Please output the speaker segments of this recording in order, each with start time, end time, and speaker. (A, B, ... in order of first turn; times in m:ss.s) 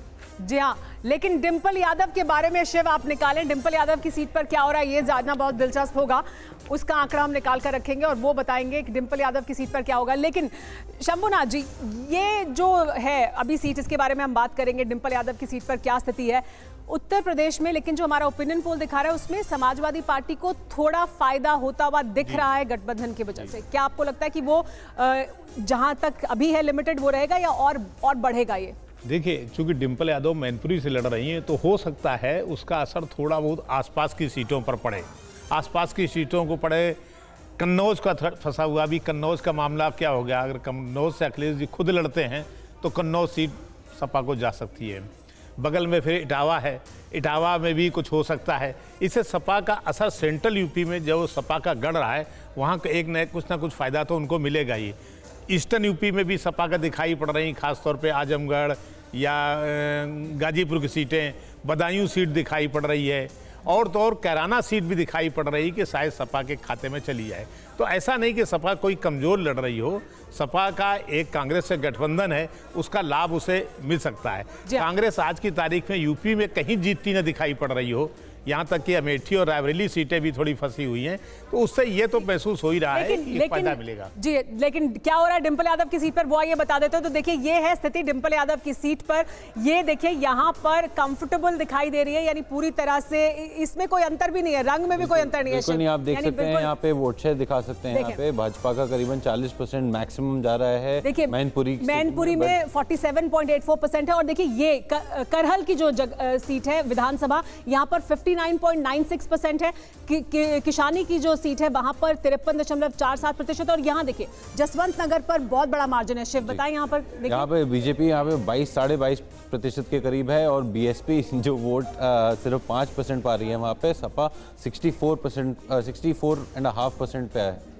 0:00.4-0:28.7 A
0:29.0-0:37.0 B
0:37.6-0:45.1 B
0:45.6-0:55.0 B
0:55.5-1:24.1 B
1:22.9-1:36.7 A
1:35.0-1:42.6 C
1:37.9-1:38.2 A
1:41.0-1:57.5 A
1:57.2-2:07.6 C